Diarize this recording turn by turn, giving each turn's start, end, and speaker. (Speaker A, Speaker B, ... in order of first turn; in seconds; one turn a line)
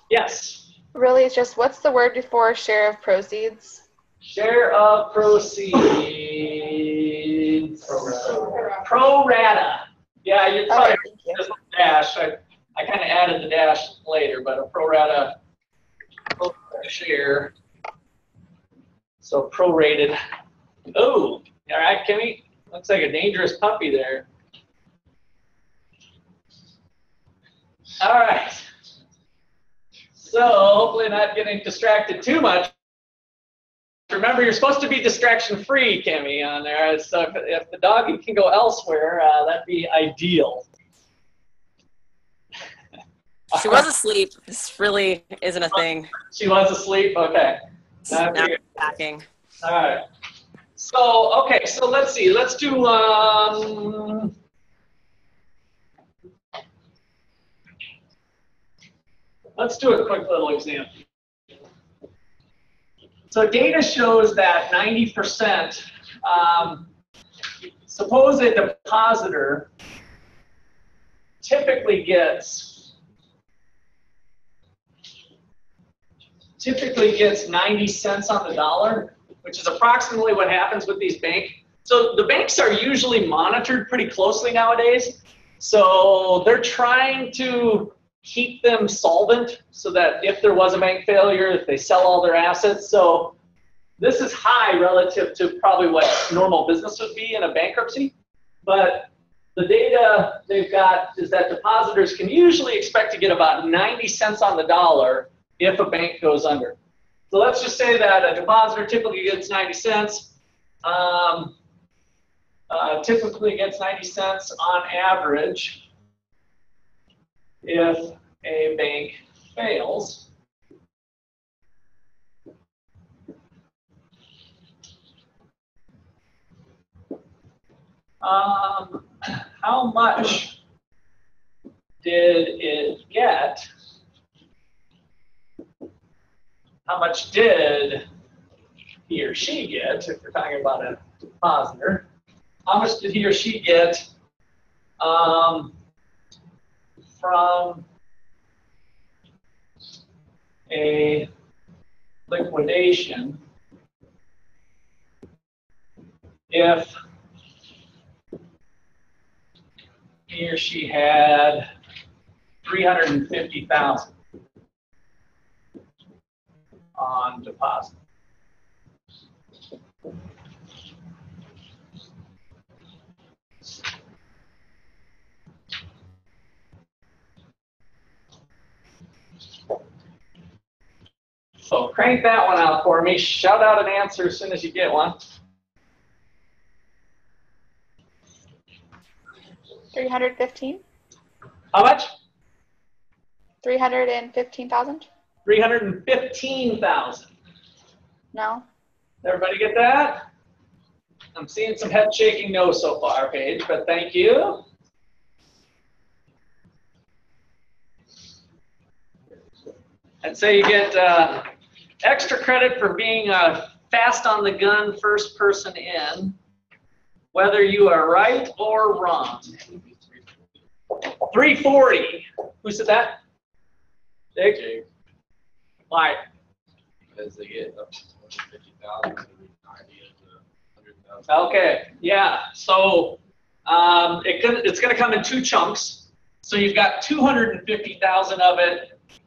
Speaker A: 0.1-0.7
Speaker B: 0.9-3.8
Speaker A: 4.2-15.3
Speaker B: 10.7-11.4
Speaker A: 16.4-17.5
Speaker A: 19.2-20.2
Speaker A: 20.9-24.3
Speaker A: 28.0-28.7
Speaker A: 30.2-32.7
Speaker A: 34.1-40.7
Speaker C: 43.5-46.1
Speaker A: 46.3-48.6
Speaker C: 48.1-49.3
Speaker A: 49.6-50.0
Speaker A: 50.8-54.3
Speaker A: 59.6-61.0
Speaker A: 63.3-66.9
Speaker A: 67.9-69.7
Speaker A: 71.4-72.9
Speaker A: 76.6-93.3
Speaker A: 94.0-106.8
Speaker A: 107.3-110.3
Speaker A: 110.8-111.6
Speaker A: 112.7-115.8
Speaker A: 117.6-120.3
Speaker A: 128.2-130.6
Speaker A: 132.0-133.7
Speaker A: 136.9-138.1
Speaker A: 139.1-142.1
Speaker A: 142.7-144.1
Speaker A: 145.0-145.7
Speaker A: 147.2-147.8
Speaker A: 150.7-151.3
Speaker A: 152.3-153.4
Speaker A: 156.5-157.0
Speaker A: 160.3-161.7
Speaker A: 162.6-164.1
Speaker A: 167.0-167.9
Speaker A: 181.7-185.2
Speaker B: 189.9-190.8
Speaker A: 191.7-192.1
Speaker B: 193.6-195.1
Speaker A: 195.5-197.3
Speaker B: 198.3-198.7
Speaker A: 199.2-200.2
Speaker A: 201.3-204.6
Speaker A: 210.2-211.5
Speaker A: 212.0-216.4
Speaker A: 217.3-219.5
Speaker D: 219.5-220.5
Speaker A: 221.3-223.2
Speaker A: 224.4-224.6
Speaker D: 224.4-224.8
Speaker A: 225.9-226.2
Speaker D: 227.1-231.5
Speaker A: 231.3-238.9